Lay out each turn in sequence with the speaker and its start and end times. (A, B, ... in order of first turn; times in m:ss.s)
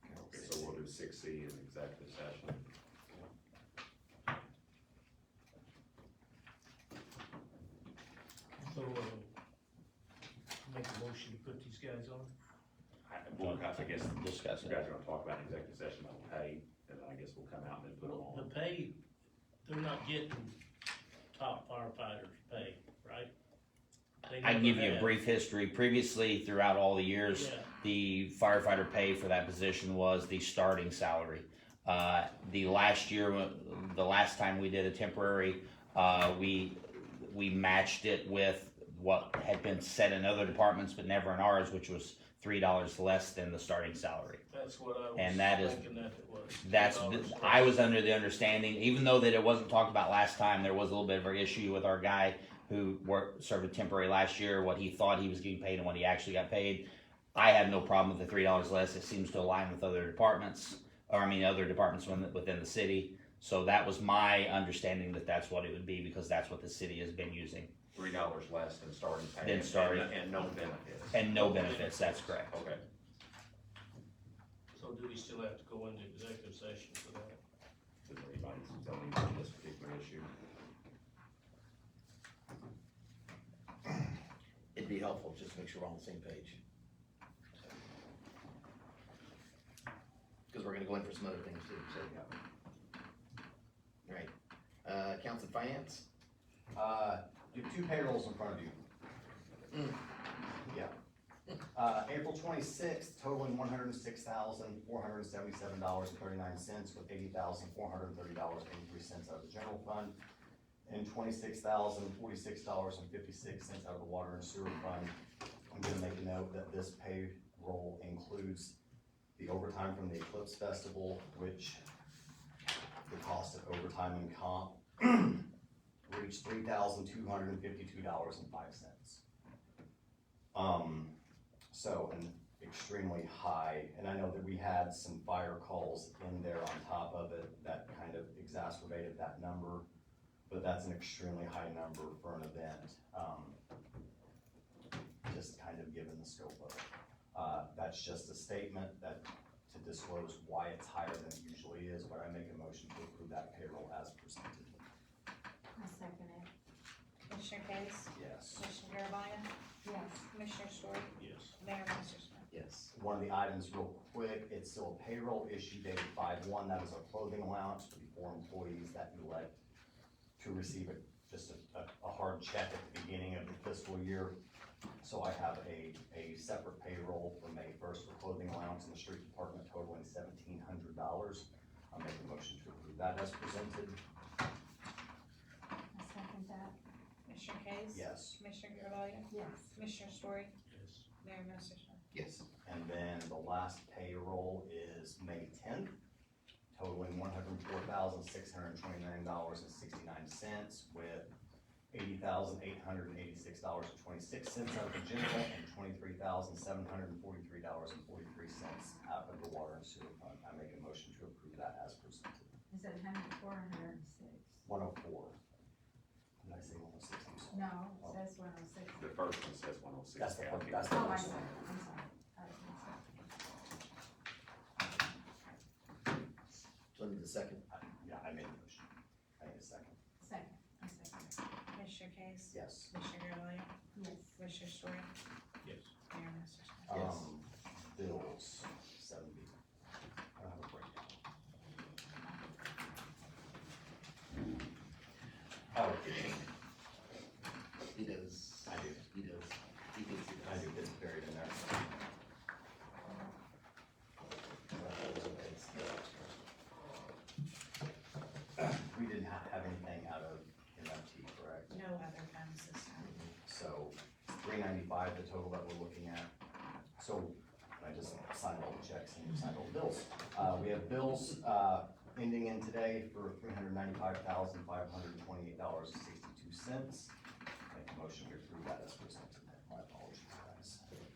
0:00.2-0:02.6 A
0:00.3-0:00.9 B
0:08.6-0:09.3 C
0:10.6-0:12.3 C
0:13.1-0:18.5 A
0:13.4-0:14.8 D
0:18.0-0:19.0 C
0:19.6-0:20.6 C
0:21.3-0:23.3 C
0:24.2-0:25.2 C
0:24.4-0:44.4 D
0:27.3-0:27.7 C
0:44.5-0:47.8 C
0:45.2-0:45.8 D
0:46.6-1:07.7 D
1:07.9-1:11.8 A
1:09.4-1:10.1 D
1:11.1-1:12.5 D
1:11.3-1:12.3 C
1:12.5-1:12.8 A
1:14.7-1:17.4 C
1:18.0-1:20.3 A
1:24.8-1:26.6 E
1:30.5-1:32.0 E
1:32.0-1:32.3 B
1:34.0-1:34.3 E
1:34.8-1:36.0 E
1:36.7-1:38.8 B
1:40.6-1:40.9 B
1:41.7-1:50.2 B
1:50.9-1:55.2 B
1:55.7-1:58.8 B
1:59.4-2:01.8 B
2:03.1-2:05.4 B
2:06.1-2:09.2 B
2:10.5-2:11.1 B
2:11.7-2:19.8 B
2:20.5-2:23.6 B
2:25.3-2:34.8 B
2:35.8-2:36.5 F
2:37.3-2:39.5 G
2:38.2-2:38.6 B
2:39.8-2:40.3 F
2:40.3-2:42.5 G
2:41.2-2:41.5 C
2:42.5-2:42.8 E
2:42.9-2:49.6 B
2:50.4-2:54.4 B
2:55.0-3:04.0 B
3:05.9-3:06.7 F
3:07.2-3:10.5 G
3:07.9-3:08.4 B
3:09.3-3:09.7 F
3:10.7-3:11.0 C
3:11.2-3:12.0 G
3:12.1-3:12.4 E
3:12.6-3:16.0 B
3:16.7-3:21.3 B
3:21.9-3:32.5 B
3:32.7-3:34.6 F
3:34.6-3:35.4 B
3:36.4-3:38.2 B
3:37.5-3:39.2 F
3:38.9-3:41.8 A
3:40.2-3:41.2 B
3:40.8-3:43.2 F
3:46.9-3:47.6 E
3:47.7-3:50.0 B
3:50.2-3:51.3 F
3:51.7-3:53.7 G
3:52.5-3:52.9 B
3:53.9-3:54.4 F
3:54.4-3:55.1 G
3:55.6-3:55.9 C
3:56.1-3:57.0 G
3:56.9-3:59.5 B
4:00.4-4:01.2 B
4:05.7-4:06.4 B
4:07.9-4:10.7 E
4:08.7-4:09.0 B
4:10.4-4:11.8 B
4:14.8-4:16.4 E
4:18.6-4:21.7 B
4:21.7-4:23.1 G
4:23.4-4:26.3 B
4:27.0-4:37.1 B
4:37.7-4:40.9 B